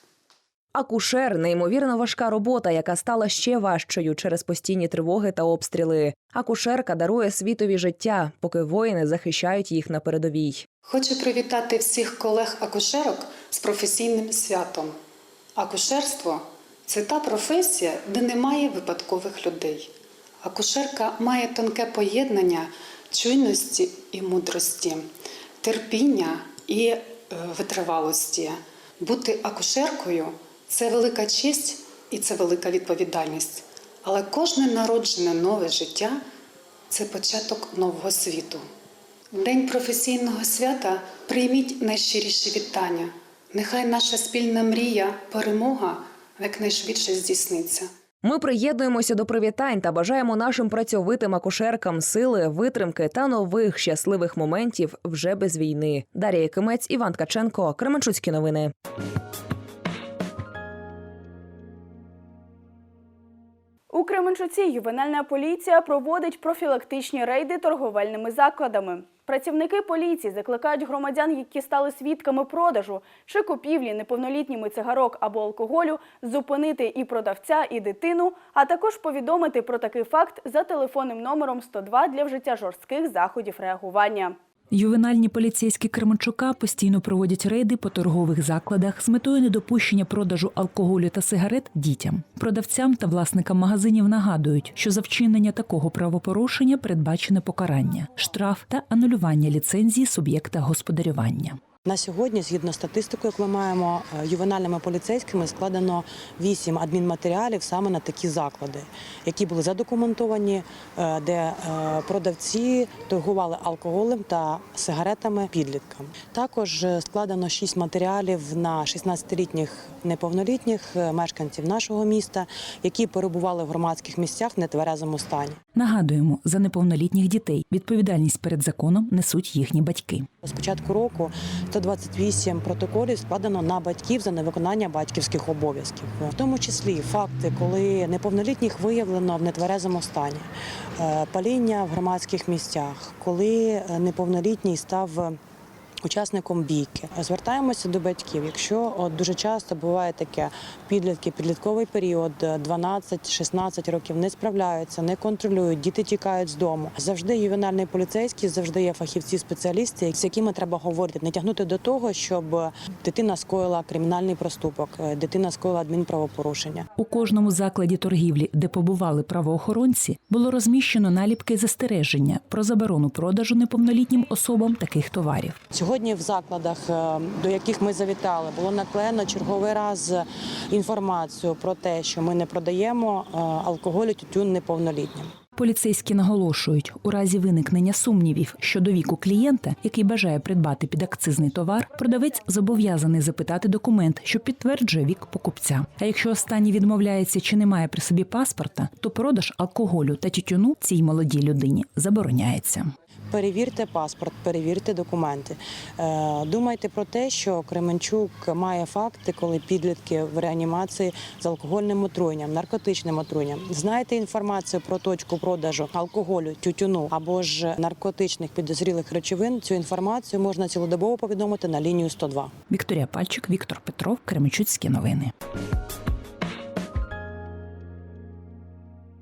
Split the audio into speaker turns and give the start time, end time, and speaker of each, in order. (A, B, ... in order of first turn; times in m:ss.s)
0:00.7-0:10.6 A
0:10.8-0:15.0 B
0:15.6-0:19.9 B
0:20.4-0:25.1 B
0:25.6-0:36.2 B
0:36.9-0:38.6 B
0:39.3-0:47.9 B
0:48.2-0:58.7 A
1:03.9-1:24.4 C
1:24.7-1:41.6 D
1:41.8-2:05.6 E
2:05.7-2:10.3 D
2:10.4-2:20.5 E
2:21.0-2:25.4 E
2:26.0-2:46.8 E
2:46.9-2:55.6 D
2:55.7-3:05.3 E
3:05.6-3:22.9 D
3:23.3-3:42.5 E
3:42.7-3:45.3 D